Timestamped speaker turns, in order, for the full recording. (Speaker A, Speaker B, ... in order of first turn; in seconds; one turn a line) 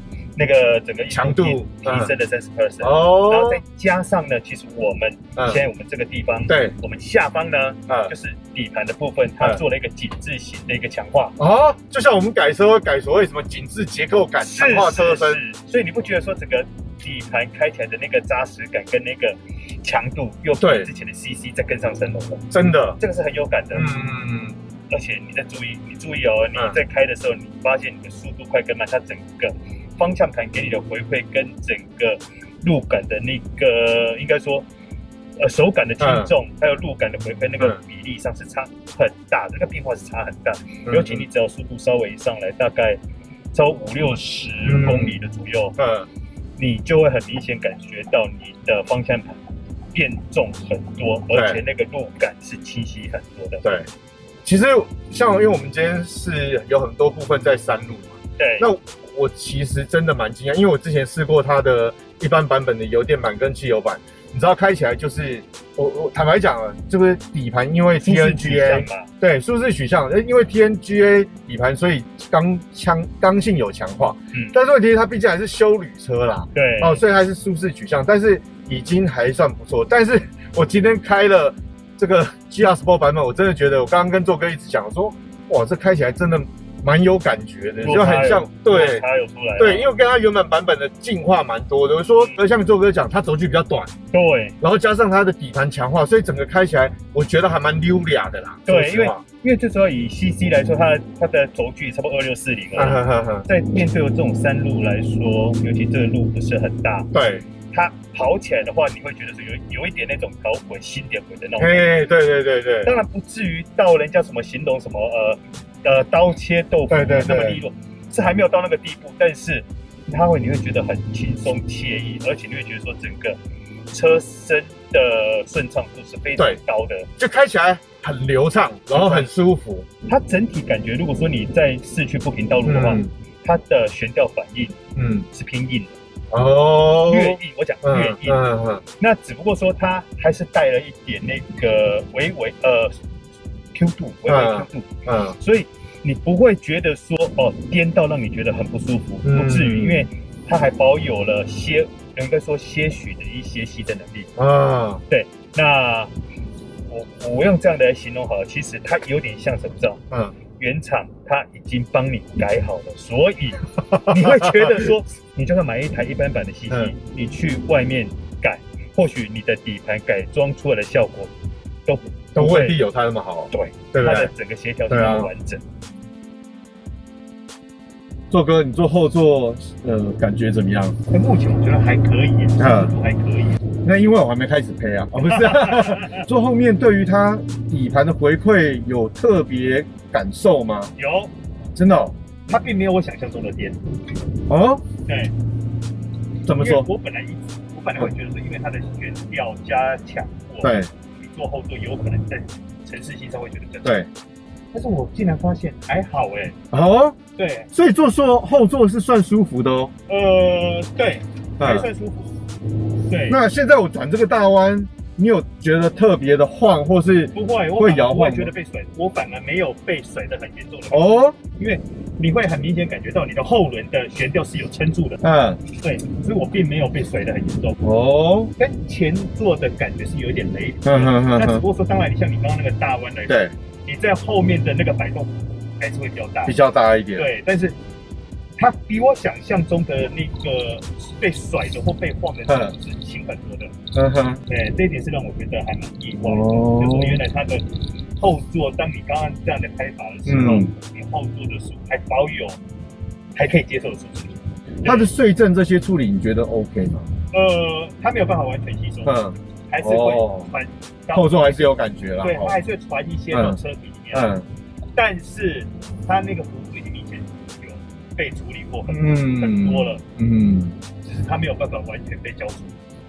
Speaker A: 0.3-11.3
Speaker B: 1.1-2.1
Speaker B: 2.8-3.6
Speaker B: 5.3-5.6
Speaker B: 6.5-6.7
Speaker B: 7.9-8.1
Speaker B: 11.4-15.4
Speaker A: 14.4-23.9
Speaker B: 20.6-20.9
Speaker B: 22.5-23.0
Speaker B: 23.7-24.6
Speaker A: 24.9-34.6
Speaker A: 35.4-43.0
Speaker B: 36.0-36.3
Speaker B: 40.9-41.3
Speaker A: 43.5-45.8
Speaker B: 44.6-45.2
Speaker B: 45.8-46.1
Speaker A: 46.6-49.4
Speaker A: 49.9-53.6
Speaker B: 51.3-51.6
Speaker B: 53.6-53.9
Speaker B: 54.4-89.0
Speaker A: 58.4-58.7
Speaker A: 68.0-69.1
Speaker A: 76.5-77.0
Speaker A: 87.8-89.9
Speaker B: 89.6-93.9
Speaker A: 94.1-94.6
Speaker B: 94.6-99.2
Speaker A: 98.7-107.1
Speaker B: 102.7-103.5
Speaker B: 107.1-107.5
Speaker A: 107.7-111.9
Speaker B: 111.6-113.0
Speaker A: 112.8-123.4
Speaker B: 116.9-117.6
Speaker A: 123.9-127.1
Speaker B: 127.2-129.8
Speaker A: 128.9-129.3
Speaker A: 130.1-134.8
Speaker B: 132.6-133.1
Speaker B: 134.9-135.3
Speaker A: 135.3-135.9
Speaker B: 136.3-138.8
Speaker A: 137.1-138.4
Speaker A: 139.0-143.0
Speaker A: 143.7-144.9
Speaker B: 144.2-145.4
Speaker A: 145.4-154.3
Speaker B: 149.2-150.1
Speaker B: 154.4-155.0
Speaker A: 155.1-156.1
Speaker A: 156.9-160.0
Speaker B: 160.1-160.3
Speaker A: 160.6-171.3
Speaker B: 163.8-164.9
Speaker A: 171.8-172.8
Speaker B: 172.3-174.3
Speaker A: 173.5-175.6
Speaker B: 174.9-175.3
Speaker B: 178.3-181.0
Speaker A: 181.1-183.6
Speaker B: 182.6-182.9
Speaker B: 183.8-190.9
Speaker A: 185.2-186.2
Speaker A: 191.0-191.3
Speaker B: 191.8-192.1
Speaker A: 192.5-193.8
Speaker B: 194.5-194.8
Speaker A: 195.1-195.3
Speaker B: 196.4-196.9
Speaker A: 196.6-204.0
Speaker B: 200.6-200.9
Speaker A: 204.7-206.6
Speaker B: 206.7-207.2
Speaker A: 207.3-207.7
Speaker B: 207.7-209.9
Speaker A: 210.1-212.4
Speaker B: 211.6-211.9
Speaker A: 213.0-213.4
Speaker B: 213.3-218.5
Speaker A: 217.3-227.8
Speaker B: 220.9-221.4
Speaker B: 225.2-225.6
Speaker B: 227.8-228.5
Speaker A: 228.6-236.6
Speaker B: 230.8-231.7
Speaker B: 233.3-233.5
Speaker B: 236.4-237.3
Speaker A: 237.2-237.7
Speaker A: 238.6-243.7
Speaker B: 242.5-242.7
Speaker B: 243.9-244.4
Speaker A: 244.5-252.6
Speaker B: 246.2-247.2
Speaker B: 250.2-250.7
Speaker A: 253.3-255.1
Speaker B: 254.8-257.1
Speaker A: 257.3-259.1
Speaker B: 259.0-260.5
Speaker A: 259.7-261.5
Speaker B: 261.1-262.6
Speaker A: 262.2-264.3
Speaker B: 263.3-263.6
Speaker B: 264.1-264.4
Speaker A: 264.9-270.0
Speaker B: 268.8-270.8
Speaker A: 271.0-272.8